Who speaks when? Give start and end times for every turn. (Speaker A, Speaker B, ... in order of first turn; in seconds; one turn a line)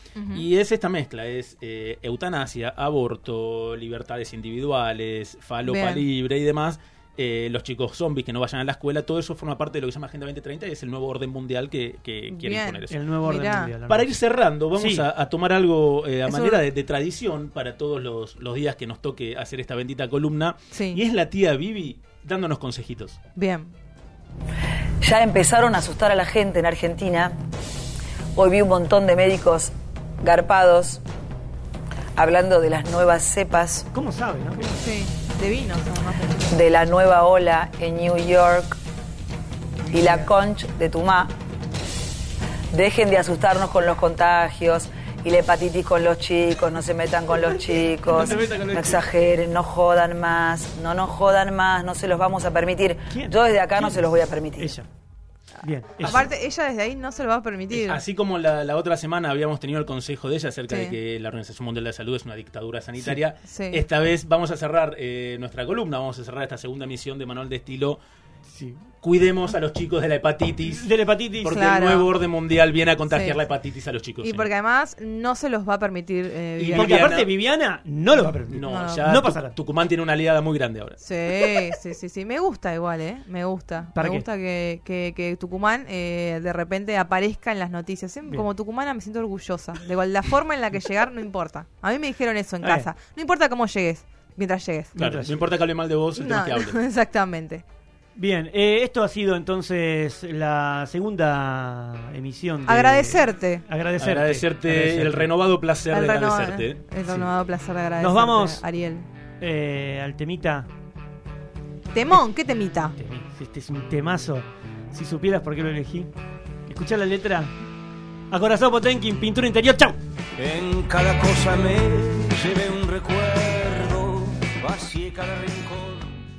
Speaker A: 0.1-0.4
Speaker B: 0.3-13.3
Speaker A: 5.6-6.0
Speaker A: 12.3-13.7
Speaker C: 12.9-14.1
Speaker B: 13.9-23.2
Speaker C: 14.8-15.1
Speaker A: 16.2-16.6
Speaker A: 20.7-21.0
Speaker A: 23.4-23.7
Speaker D: 25.0-27.4
Speaker D: 28.3-31.0
Speaker D: 32.1-33.9
Speaker C: 33.9-34.7
Speaker A: 34.6-36.5
Speaker D: 36.5-38.8
Speaker D: 39.9-41.4
Speaker D: 42.7-54.7
Speaker C: 47.5-49.0
Speaker C: 53.1-54.9
Speaker C: 55.6-56.3
Speaker A: 56.0-58.0
Speaker B: 57.7-68.0
Speaker A: 60.7-60.9
Speaker A: 63.5-63.8
Speaker C: 68.5-68.8
Speaker B: 69.0-70.9
Speaker C: 70.7-71.7
Speaker B: 71.4-74.5
Speaker A: 71.5-72.1
Speaker A: 73.1-73.4
Speaker A: 74.2-77.1
Speaker B: 76.6-77.3
Speaker C: 76.7-79.5
Speaker B: 78.5-81.0
Speaker A: 78.6-79.2
Speaker A: 81.0-95.0
Speaker C: 83.9-84.2
Speaker C: 92.6-92.9
Speaker C: 95.0-95.4
Speaker B: 95.0-96.8
Speaker A: 96.2-97.6
Speaker C: 98.2-105.3
Speaker A: 102.7-103.6
Speaker B: 104.0-106.8
Speaker A: 105.9-109.1
Speaker C: 108.0-108.6
Speaker C: 109.4-110.7
Speaker A: 111.9-113.0
Speaker C: 113.0-116.1
Speaker C: 116.7-117.5
Speaker C: 118.3-120.0
Speaker E: 120.4-126.2